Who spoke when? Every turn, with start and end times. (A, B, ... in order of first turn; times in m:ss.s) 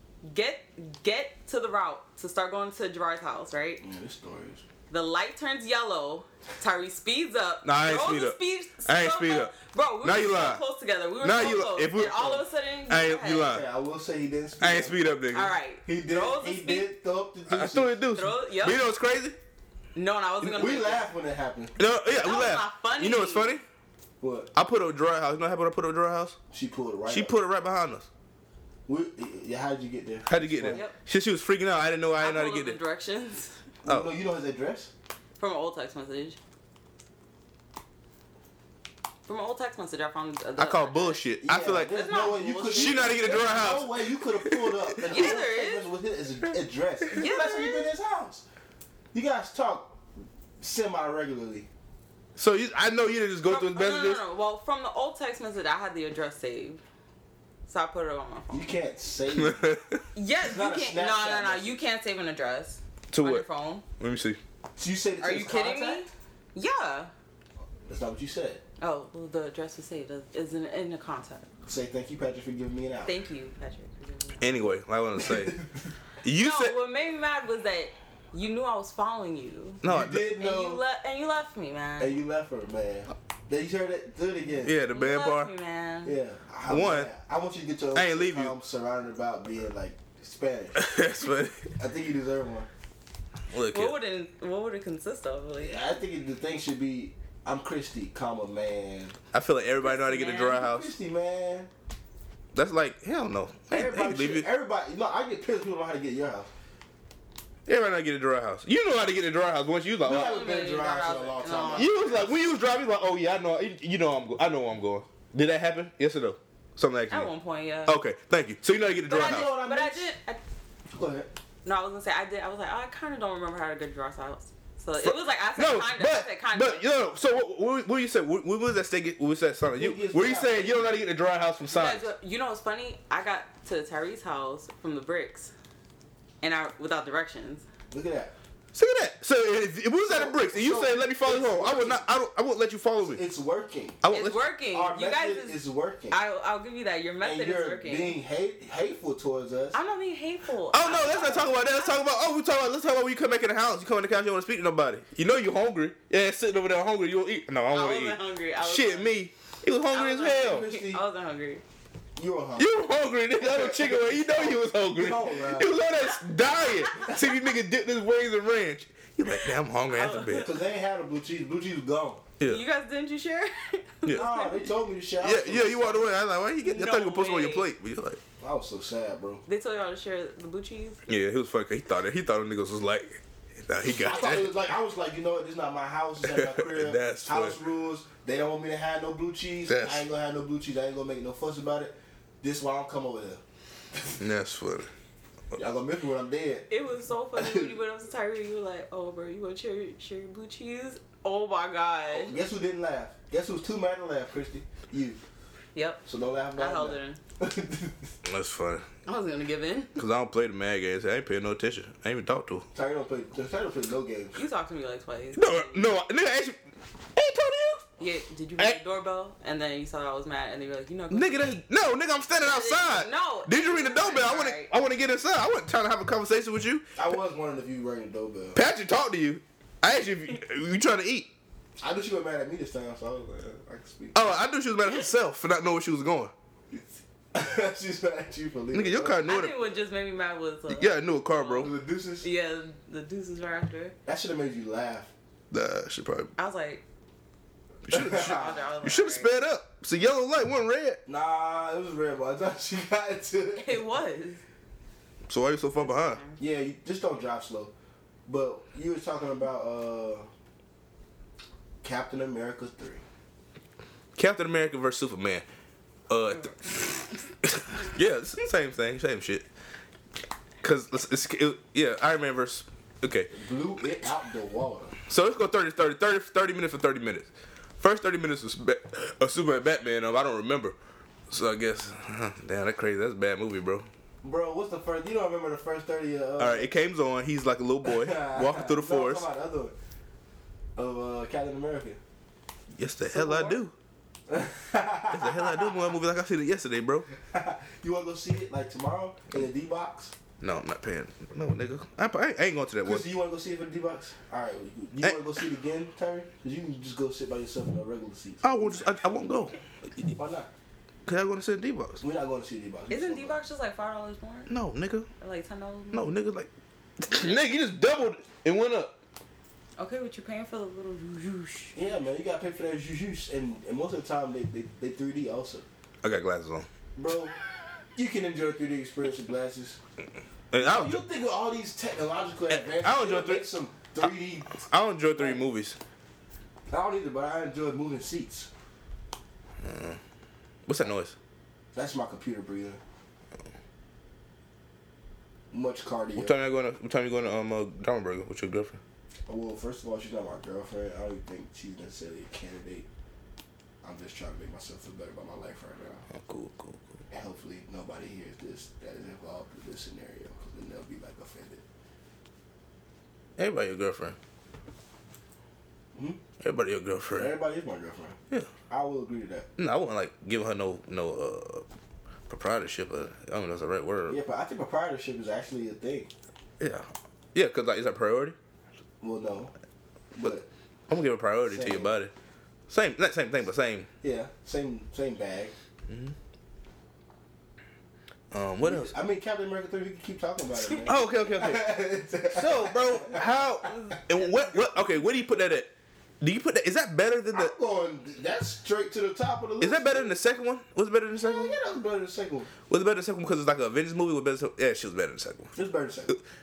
0:00.2-0:03.8 A
0:03.8-0:04.6 B
0:04.9-0:13.6 A
0:07.6-0:10.6 C
0:11.2-0:13.6 C
0:13.5-0:15.0 B
0:14.6-0:15.5 C
0:15.3-0:16.9 A
0:15.8-0:18.0 B
0:17.5-0:19.4 C
0:18.1-0:18.8 A
0:20.0-0:21.1 A
0:20.4-0:21.8 B
0:21.8-0:23.6 C
0:22.1-0:23.6 A
0:24.2-0:24.5 B
0:24.6-0:26.4 C
0:26.5-0:27.3 B
0:27.1-0:28.1 C
0:28.9-0:30.8 B
0:30.3-0:32.8 C
0:32.2-0:33.6 A
0:33.8-0:34.9 B
0:33.9-0:34.1 C
0:35.4-0:36.4 A
0:39.2-0:41.2 A
0:40.6-0:42.0 C
0:41.4-0:48.4 B
0:41.8-0:43.7 A
0:42.7-0:45.4 C
0:45.1-0:45.9 A
0:47.1-0:47.9 A
0:49.1-0:50.0 B
0:50.6-0:51.7 B
0:52.4-0:54.2 C
0:53.5-0:56.8 A
0:57.7-0:58.7 A
0:58.5-0:59.7 B
0:59.4-1:00.0 C
1:00.1-1:03.9 A
1:00.4-1:01.9 B
1:03.1-1:03.5 C
1:04.0-1:04.4 C
1:04.8-1:06.1 B
1:05.2-1:07.1 A
1:07.9-1:08.6 B
1:08.8-1:11.5 A
1:11.7-1:13.2 B
1:13.1-1:14.6 A
1:14.4-1:15.6 C
1:15.2-1:15.8 B
1:16.2-1:16.8 C
1:16.3-1:19.8 A
1:19.8-1:20.3 C
1:19.8-1:20.8 B
1:20.4-1:22.2 A
1:22.0-1:24.8 B
1:24.6-1:25.5 C
1:24.9-1:26.2 A
1:26.0-1:30.8 B
1:26.7-1:27.1 C
1:28.0-1:28.5 C
1:30.8-1:31.7 C
1:31.8-1:32.7 B
1:33.5-1:34.0 C
1:33.7-1:36.0 A
1:35.6-1:39.2 B
1:39.3-1:40.9 C
1:39.8-1:40.6 A
1:40.5-1:41.7 B
1:42.5-1:44.5 C
1:43.7-1:46.5 B
1:47.7-1:50.4 C
1:50.0-1:52.3 B
1:50.0-1:52.3 A
1:51.7-1:57.3 C
1:57.1-1:58.0 A
1:57.9-1:59.5 C
1:59.1-2:00.4 A
1:59.1-2:00.1 B
2:00.9-2:01.3 B
2:01.6-2:06.8 A
2:05.0-2:12.1 C
2:09.8-2:10.9 B
2:11.7-2:15.5 A
2:16.4-2:17.7 A
2:17.9-2:18.3 B
2:18.7-2:23.2 C
2:20.0-2:22.1 B
2:23.0-2:24.0 B
2:24.0-2:24.4 C
2:24.1-2:25.6 A
2:24.7-2:26.2 B
2:26.1-2:28.2 A
2:27.2-2:29.8 B
2:29.7-2:32.0 A
2:30.7-2:40.7 C
2:37.7-2:39.1 A
2:39.9-2:41.6 A
2:40.4-2:41.0 B
2:42.2-2:42.7 B
2:42.6-2:50.5 C
2:43.4-2:45.7 B
2:46.9-2:47.2 A
2:49.4-2:50.6 A
2:50.4-2:52.2 B
2:52.4-2:54.7 A
2:54.1-2:56.1 B
2:55.2-2:58.2 C
2:56.6-2:57.7 A
2:58.4-2:59.4 B
2:59.5-3:01.0 A
3:01.1-3:04.5 C
3:03.9-3:13.4 B
3:06.2-3:07.6 C
3:09.7-3:10.1 C
3:14.2-3:14.9 C
3:15.5-3:16.7 B
3:16.7-3:22.4 A
3:17.4-3:17.7 B
3:22.1-3:25.2 B
3:25.8-3:26.0 A
3:26.0-3:28.1 B
3:26.6-3:27.2 A
3:28.2-3:28.9 C
3:29.1-3:30.0 A
3:30.0-3:32.7 C
3:32.7-3:34.4 B
3:34.4-3:35.9 A
3:35.3-3:36.6 C
3:37.1-3:37.9 C
3:38.0-3:41.6 A
3:41.1-3:46.9 C
3:42.4-3:44.7 A
3:47.0-3:48.6 B
3:48.6-3:51.3 C
3:51.8-3:54.3 B
3:54.2-3:56.3 C
3:57.3-3:59.2 B
3:58.7-3:59.6 C
3:59.2-4:04.0 A
4:00.7-4:01.7 C
4:01.6-4:02.3 B
4:04.1-4:05.1 B
4:05.5-4:06.3 C
4:06.4-4:06.8 A
4:07.9-4:11.0 C
4:07.9-4:08.6 B
4:08.0-4:09.3 A
4:11.1-4:13.8 B
4:13.6-4:14.4 A
4:15.3-4:16.2 C
4:15.8-4:16.4 A
4:16.4-4:17.7 B
4:18.3-4:20.3 B
4:21.8-4:23.0 B
4:24.2-4:25.4 C
4:26.1-4:29.5 C
4:30.6-4:33.3 C
4:33.3-4:35.0 B
4:35.1-4:40.8 C
4:41.3-4:43.9 C
4:44.2-4:46.7 B
4:46.4-4:49.3 C
4:47.8-4:49.8 B
4:50.8-4:52.0 B
4:52.8-4:53.7 C
4:53.1-4:53.6 B
4:54.3-4:55.8 B
4:55.1-4:57.1 C
4:57.1-5:00.1 B
5:00.4-5:03.1 C
5:02.8-5:08.9 B
5:08.4-5:10.1 C
5:10.2-5:10.5 B
5:11.1-5:12.0 C
5:12.0-5:13.4 B
5:12.9-5:14.5 A
5:14.5-5:15.1 C
5:15.2-5:16.1 A
5:15.9-5:18.9 C
5:19.8-5:21.8 A
5:21.7-5:25.7 B
5:26.0-5:26.7 C
5:27.0-5:27.3 B
5:28.0-5:29.8 B
5:30.5-5:31.0 C
5:30.6-5:34.6 B
5:32.5-5:33.5 C
5:34.0-5:35.8 C
5:35.2-5:35.4 B
5:36.7-5:38.5 B
5:39.6-5:40.0 C
5:40.7-5:41.2 C
5:41.7-5:42.8 B
5:45.5-5:46.4 B
5:46.2-5:48.8 C
5:49.3-5:52.9 B
5:53.8-5:56.1 B
5:56.1-5:56.8 C
5:57.1-6:01.6 B
6:03.4-6:04.2 C
6:06.4-6:07.3 C
6:07.1-6:08.2 B
6:08.7-6:09.5 B
6:09.6-6:11.7 C
6:12.3-6:14.2 C
6:14.1-6:16.1 B
6:16.6-6:18.4 C
6:19.0-6:19.5 B
6:20.2-6:20.5 B
6:20.9-6:22.1 C
6:21.5-6:22.0 B
6:22.7-6:23.9 C
6:24.0-6:25.5 B
6:25.9-6:26.2 C
6:28.3-6:29.0 C
6:28.6-6:33.2 B
6:30.8-6:31.8 C
6:32.3-6:37.5 C
6:33.6-6:35.0 A
6:37.3-6:40.2 B
6:39.6-6:41.6 C
6:41.2-6:42.5 B
6:42.7-6:45.5 C
6:45.6-6:46.2 B